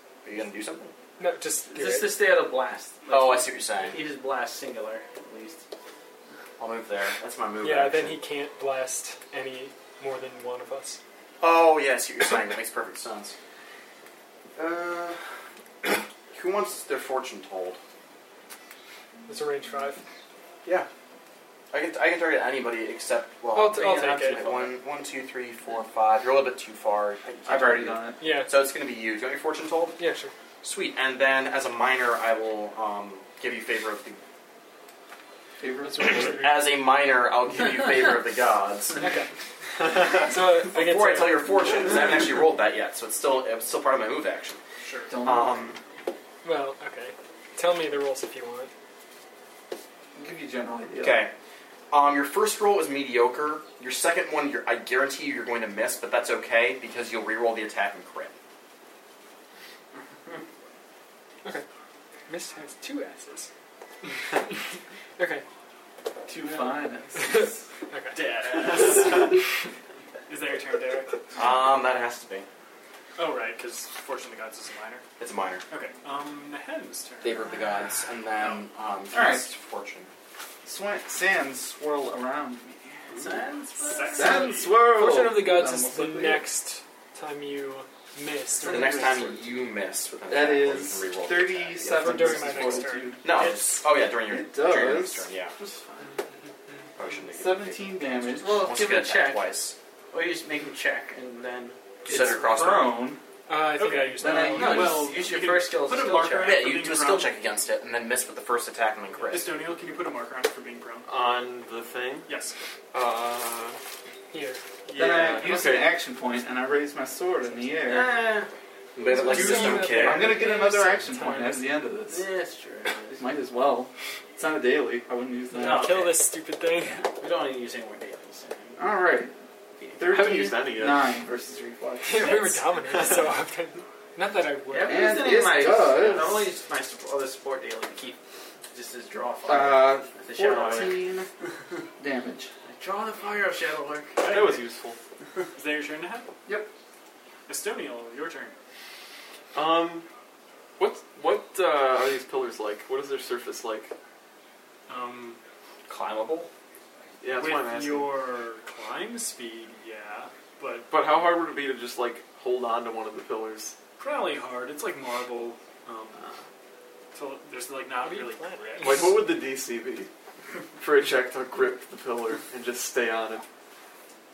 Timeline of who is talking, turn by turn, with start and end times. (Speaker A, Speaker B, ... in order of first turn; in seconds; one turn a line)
Speaker A: 0.2-0.9
Speaker B: 1.2-2.2
Speaker C: 1.7-5.6
Speaker A: 3.1-4.0
Speaker A: 6.6-8.2
Speaker B: 7.6-11.0
Speaker A: 11.4-13.3
Speaker A: 14.6-15.3
Speaker A: 16.3-17.8
Speaker B: 19.3-20.0
Speaker A: 21.7-30.0
Speaker B: 23.5-24.4
Speaker C: 23.8-24.8
Speaker D: 27.5-28.2
Speaker B: 28.2-28.5
Speaker B: 30.0-30.3
Speaker A: 30.6-34.2
Speaker D: 35.6-36.5
Speaker A: 36.1-39.0
Speaker B: 39.0-39.3
Speaker B: 39.9-41.7
Speaker A: 40.6-44.6
Speaker E: 44.8-45.1
Speaker D: 45.1-45.8
Speaker A: 45.2-45.8
Speaker B: 46.4-48.7
Speaker D: 50.2-51.3
Speaker A: 51.0-51.3
Speaker A: 51.9-58.3
Speaker B: 62.3-63.5
Speaker B: 65.2-65.5
Speaker D: 66.3-67.6
Speaker B: 67.2-69.4
Speaker E: 68.1-69.5
Speaker E: 70.3-71.2
Speaker A: 71.3-72.5
Speaker E: 73.2-75.0
Speaker A: 75.2-75.6
Speaker E: 75.7-77.5
Speaker A: 77.2-80.1
Speaker D: 79.1-79.5
Speaker D: 80.6-83.2
Speaker C: 83.1-84.6
Speaker E: 83.8-84.8
Speaker D: 84.1-86.5
Speaker B: 84.8-89.3
Speaker A: 88.6-95.5
Speaker D: 90.3-93.4
Speaker B: 91.9-93.7
Speaker D: 94.2-95.3
Speaker C: 95.6-96.0
Speaker A: 97.0-99.8
Speaker D: 97.3-98.7
Speaker C: 98.3-99.5
Speaker C: 100.1-101.8
Speaker A: 102.0-103.1
Speaker D: 102.1-103.2
Speaker B: 103.5-105.0
Speaker E: 103.8-107.3
Speaker D: 104.2-105.1
Speaker C: 104.6-106.7
Speaker A: 106.4-109.6
Speaker E: 109.3-111.1
Speaker F: 111.1-112.3
Speaker E: 112.3-112.5
Speaker F: 112.9-113.8
Speaker B: 114.3-114.6
Speaker F: 114.9-116.0
Speaker D: 114.9-118.2
Speaker C: 117.8-118.5
Speaker A: 119.0-120.4
Speaker B: 119.1-121.8
Speaker D: 119.2-122.3
Speaker C: 122.1-123.3
Speaker D: 123.2-126.0
Speaker C: 125.5-126.2
Speaker B: 125.5-127.1
Speaker C: 127.0-128.9
Speaker D: 128.8-129.3
Speaker C: 129.8-130.3
Speaker F: 130.0-131.2
Speaker D: 130.0-132.6
Speaker B: 132.0-135.3
Speaker C: 134.7-138.2
Speaker D: 134.9-136.5
Speaker C: 138.7-141.0
Speaker D: 139.5-141.3
Speaker F: 140.4-141.0
Speaker D: 142.0-142.5
Speaker C: 142.7-144.2
Speaker E: 144.2-144.6
Speaker F: 144.2-145.0
Speaker E: 145.6-146.3
Speaker E: 147.5-148.6
Speaker F: 149.5-150.1
Speaker F: 150.8-153.9
Speaker E: 154.9-155.4
Speaker A: 155.9-156.5
Speaker F: 157.2-158.1
Speaker E: 157.3-160.9
Speaker F: 160.9-163.8
Speaker E: 164.0-166.2
Speaker C: 166.2-166.4
Speaker E: 167.1-169.2
Speaker B: 168.0-169.1
Speaker F: 168.8-170.1
Speaker F: 170.8-173.4